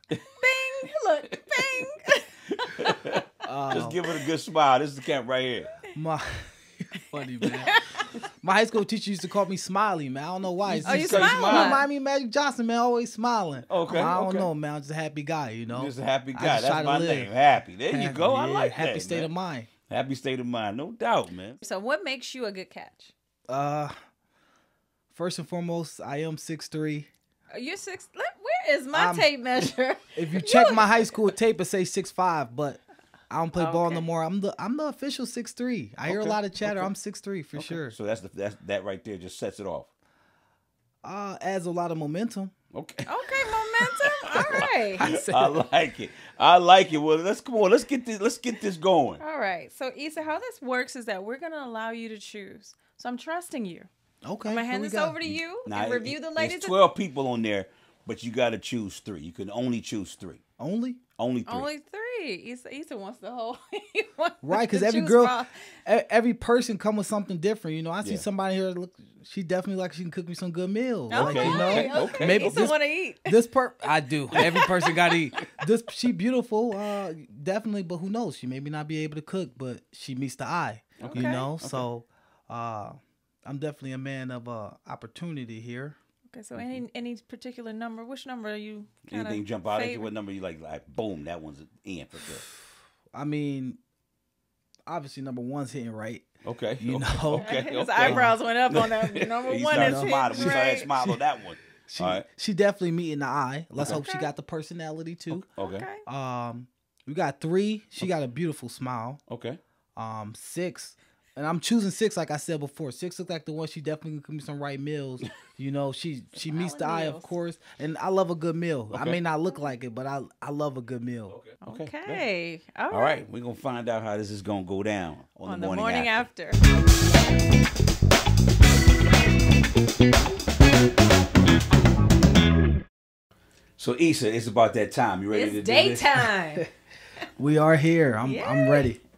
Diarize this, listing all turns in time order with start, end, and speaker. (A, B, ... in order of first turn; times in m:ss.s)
0:00.4-0:02.9 A
0:02.6-0:05.7 B
0:03.4-0:04.0 C
0:05.9-0:17.3 C
0:07.4-0:07.8 A
0:10.7-0:11.8 A
0:10.8-0:11.8 B
0:13.7-0:14.5 B
0:15.7-0:19.3 B
0:17.9-0:19.7 C
0:19.9-0:21.6 B
0:21.6-0:23.1 A
0:23.5-0:23.9 C
0:25.1-0:27.1 C
0:27.5-0:31.1 A
0:28.9-0:29.3 C
0:30.1-0:37.9 C
0:33.6-0:34.0 A
0:36.1-0:36.9 B
0:37.6-0:39.9 B
0:41.0-0:42.5 C
0:42.7-0:49.2 B
0:43.0-0:45.1 A
0:44.5-0:45.6 C
0:49.2-0:53.9 A
0:54.2-0:55.2 C
0:54.4-0:56.8 A
0:55.6-1:00.4 B
1:00.6-1:01.0 C
1:01.2-1:01.7 B
1:01.5-1:05.5 A
1:04.4-1:26.0 C
1:11.1-1:12.7 B
1:11.1-1:13.4 A
1:14.3-1:15.1 A
1:21.0-1:21.5 A
1:21.0-1:21.9 B
1:26.3-1:30.1 A
1:26.5-1:26.8 B
1:29.0-1:32.4 B
1:33.1-1:33.8 C
1:34.9-1:38.3 C
1:36.4-1:42.2 B
1:37.3-1:40.9 A
1:39.7-1:41.2 C
1:41.8-1:45.4 C
1:43.8-1:44.0 B
1:43.8-1:44.3 A
1:45.3-1:45.9 B
1:45.6-1:46.0 A
1:46.0-1:49.2 C
1:49.3-1:49.6 B
1:50.0-2:01.4 C
1:56.4-1:57.3 A
1:58.9-1:59.2 B
2:01.3-2:02.2 B
2:01.6-2:03.2 A
2:02.9-2:06.2 B
2:05.4-2:06.6 A
2:13.8-2:16.2 B
2:15.3-2:16.7 A
2:17.4-2:19.0 C
2:18.2-2:18.9 A